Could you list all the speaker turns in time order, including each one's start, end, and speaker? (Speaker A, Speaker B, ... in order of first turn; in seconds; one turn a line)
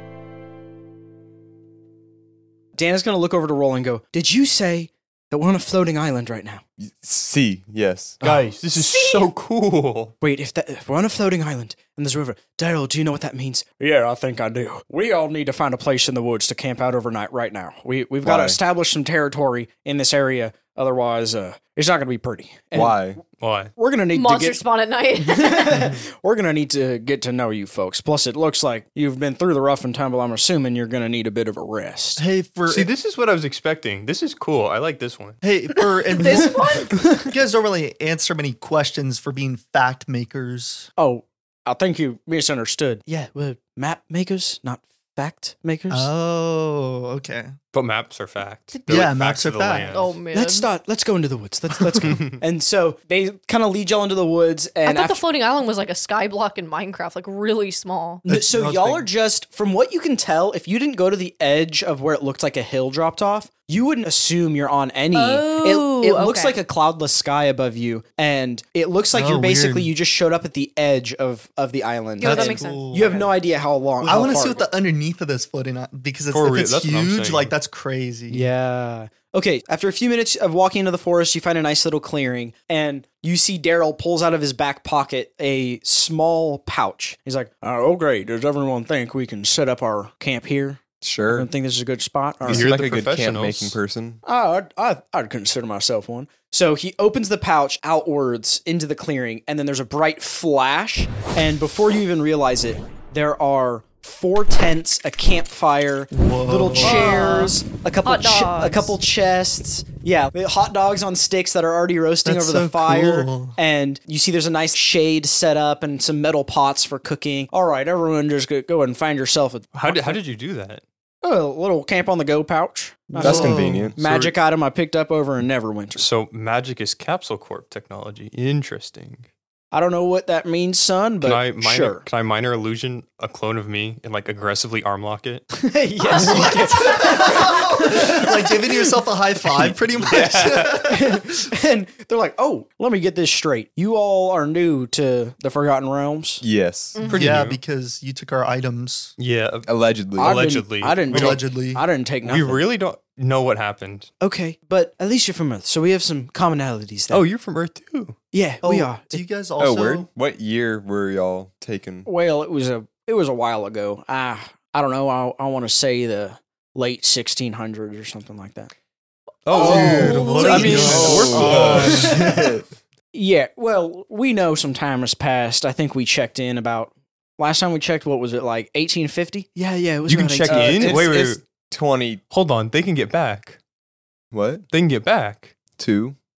Speaker A: 2.8-6.6
Speaker B: 6.8-8.2
Speaker A: 8.2-8.5
Speaker C: 8.2-10.1
Speaker D: 8.8-9.3
Speaker A: 10.2-23.1
Speaker B: 18.2-18.6
Speaker B: 22.7-23.2
Speaker C: 23.4-23.7
Speaker A: 23.8-24.6
Speaker D: 24.1-25.9
Speaker A: 25.2-32.2
Speaker E: 32.2-32.9
Speaker C: 32.7-35.4
Speaker E: 35.4-40.9
Speaker D: 36.1-37.0
Speaker A: 36.4-37.3
Speaker A: 41.0-46.1
Speaker E: 45.9-47.5
Speaker C: 47.7-50.2
Speaker E: 48.9-50.0
Speaker D: 49.9-50.7
Speaker A: 50.3-55.2
Speaker C: 52.0-52.4
Speaker D: 54.8-58.2
Speaker A: 58.2-74.7
Speaker E: 58.3-59.1
Speaker D: 65.1-66.6
Speaker E: 69.1-69.9
Speaker D: 72.2-73.3
Speaker E: 72.2-73.3
Speaker E: 74.0-78.5
Speaker C: 76.3-77.5
Speaker A: 78.3-92.8
Speaker B: 91.0-91.5
Speaker B: 92.4-94.2
Speaker C: 92.5-93.8
Speaker A: 94.2-120.2
Speaker E: 106.1-107.2
Speaker D: 106.8-109.0
Speaker E: 112.2-113.6
Speaker C: 119.8-120.8
Speaker A: 121.2-126.1
Speaker B: 123.2-124.0
Speaker E: 123.2-123.9
Speaker C: 124.0-124.3
Speaker C: 126.0-129.3
Speaker A: 129.7-132.1
Speaker C: 131.2-135.5
Speaker A: 135.5-138.9
Speaker E: 136.1-141.5
Speaker D: 136.2-136.4
Speaker C: 139.7-140.8
Speaker A: 140.8-146.4
Speaker B: 146.4-147.0
Speaker D: 147.0-147.3
Speaker E: 147.0-149.1
Speaker C: 147.1-147.6
Speaker C: 149.2-151.4
Speaker B: 149.7-150.5
Speaker A: 150.2-152.7
Speaker E: 151.1-151.9
Speaker C: 152.2-154.1
Speaker A: 154.2-157.2
Speaker C: 157.1-158.2
Speaker A: 158.3-159.2
Speaker E: 158.6-160.1
Speaker B: 159.6-162.1
Speaker A: 162.1-168.7
Speaker B: 169.5-172.7
Speaker D: 169.5-171.0
Speaker E: 169.5-172.4
Speaker C: 169.6-172.2
Speaker A: 171.4-172.3
Speaker A: 173.1-181.1
Speaker C: 180.1-181.4
Speaker B: 180.5-182.2
Speaker C: 182.3-183.6
Speaker B: 184.3-184.6
Speaker C: 184.7-185.6
Speaker B: 185.8-186.2